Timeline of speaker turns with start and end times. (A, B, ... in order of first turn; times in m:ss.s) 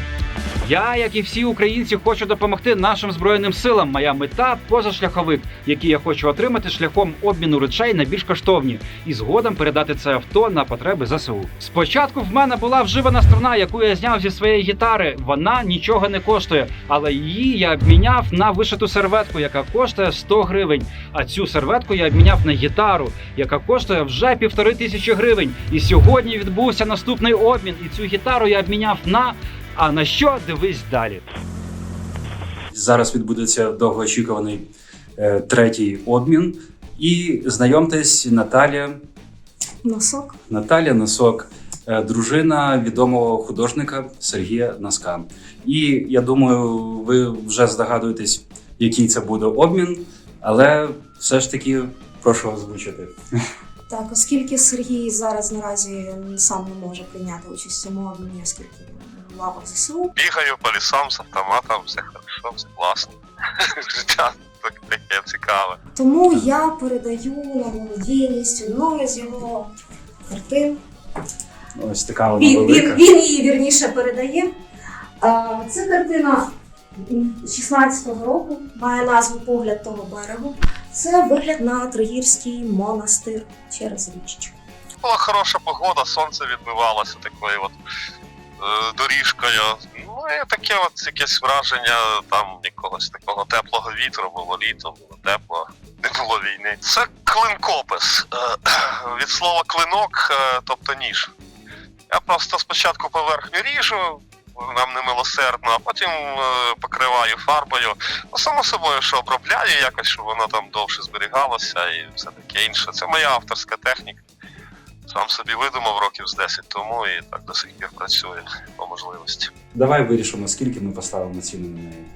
0:00.6-0:31.3 A
0:32.7-0:34.6 B
0:35.2-0:39.0 B
0:39.8-0:40.4 C
0:40.5-0:53.1 B
0:53.9-1:00.1 C
1:00.2-1:05.8 D
1:05.9-1:09.7 C
1:10.3-1:10.8 C
1:11.8-1:13.0 B
1:12.4-1:14.5 C
1:15.2-1:16.5 C
1:17.1-1:24.5 C
1:25.0-1:27.8 D
1:28.6-1:41.3 D
1:42.1-1:54.2 D
1:55.1-1:59.5 D
1:59.8-2:02.1 B